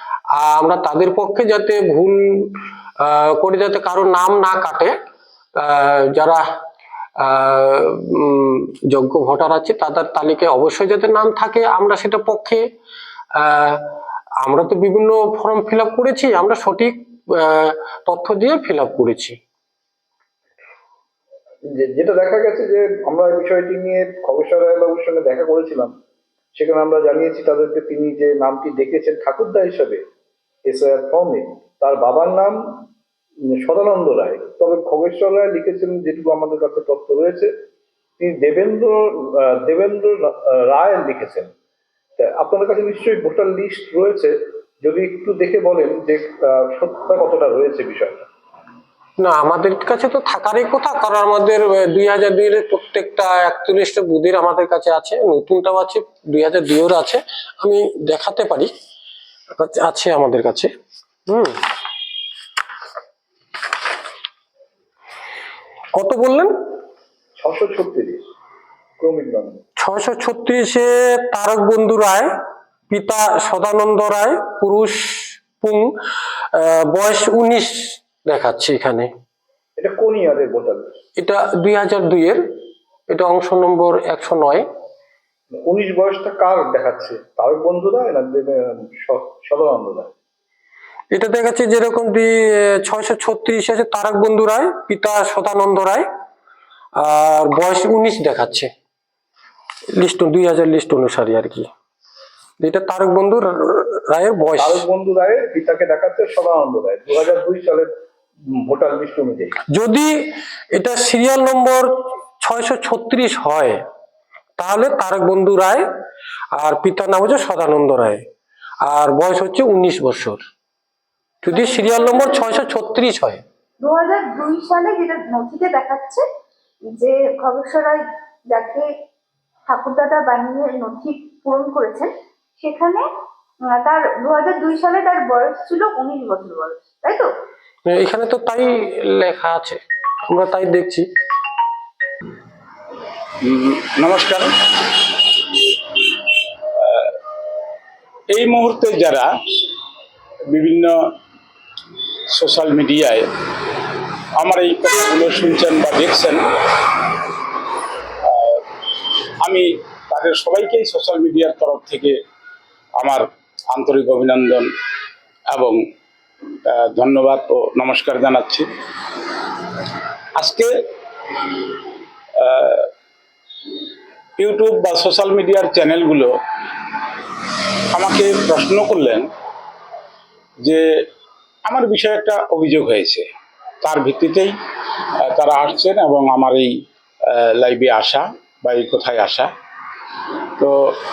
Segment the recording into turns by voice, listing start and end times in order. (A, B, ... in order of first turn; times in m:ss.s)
0:00.3-0:05.0 A
0:05.6-0:06.4 A
0:07.2-0:12.7 A
0:13.4-0:13.9 A
0:14.4-0:19.4 A
0:21.8-0:25.9 B
0:26.6-0:30.0 B
0:30.7-0:32.6 B
0:33.5-0:37.5 B
0:38.2-0:41.5 B
0:42.2-0:48.2 B
0:49.2-0:58.7 A
0:59.6-1:00.7 A
1:01.3-1:01.6 A
1:05.9-1:06.5 A
1:07.4-1:08.2 B
1:09.0-1:09.6 B
1:09.8-1:12.3 A
1:12.9-1:15.9 A
1:16.5-1:19.1 A
1:19.8-1:20.9 B
1:21.2-1:22.4 A
1:23.1-1:24.7 A
1:25.6-1:30.1 B
1:31.1-1:36.1 A
1:37.0-1:38.7 A
1:39.9-1:41.7 A
1:42.6-1:44.8 A
1:44.5-1:47.9 B
1:48.5-1:49.6 B
1:49.7-1:53.8 A
1:54.6-1:55.9 A
1:56.6-1:58.2 A
1:58.8-2:00.4 A
2:01.4-2:03.4 A
2:01.6-2:02.2 C
2:03.8-2:06.2 C
2:06.9-2:08.9 C
2:09.7-2:12.1 C
2:12.6-2:13.0 C
2:13.6-2:17.3 C
2:17.9-2:21.1 A
2:23.4-2:24.5 D
2:26.8-2:27.1 D
2:28.3-2:29.3 D
2:30.5-2:31.0 D
2:32.3-2:33.2 D
2:34.4-2:36.4 D
2:38.2-2:38.6 D
2:39.4-2:42.2 D
2:43.0-2:44.7 D
2:45.5-2:45.8 D
2:46.7-2:48.7 D
2:50.4-2:50.7 D
2:52.4-2:52.9 D
2:54.4-2:56.3 D
2:57.9-2:59.3 D
3:01.7-3:03.2 D
3:03.8-3:04.5 D
3:05.2-3:06.7 D
3:07.3-3:09.5 D